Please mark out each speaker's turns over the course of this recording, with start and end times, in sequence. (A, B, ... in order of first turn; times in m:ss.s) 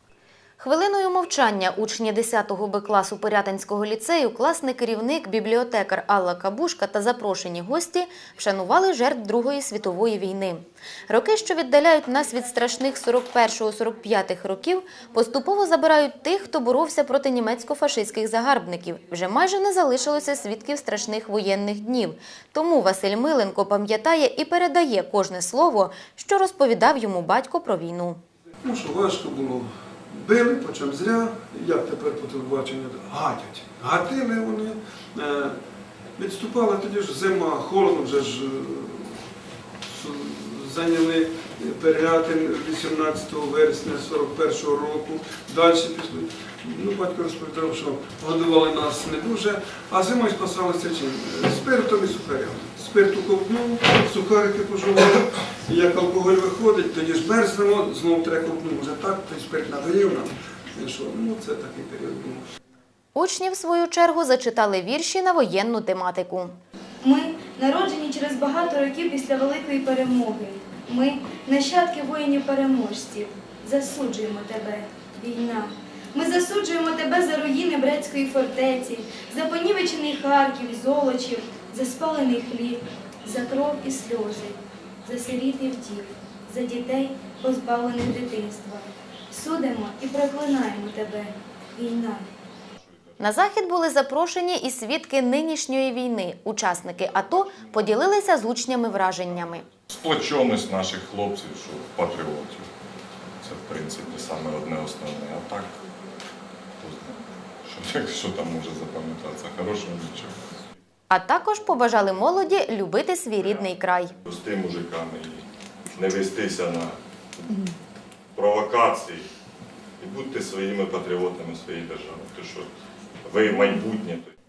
0:00.6-0:28.2 A
0:28.6-0:35.6 B
0:36.2-0:39.2 B
0:39.9-1:02.4 B
1:03.2-1:06.6 A
1:07.0-1:32.3 C
1:33.2-1:39.7 A
1:39.9-1:42.7 D
1:43.4-1:45.8 D
1:46.8-1:50.4 D
1:51.1-1:54.1 A
1:54.2-1:57.7 D
1:58.3-1:59.3 D
2:00.0-2:02.7 D
2:03.2-2:04.3 D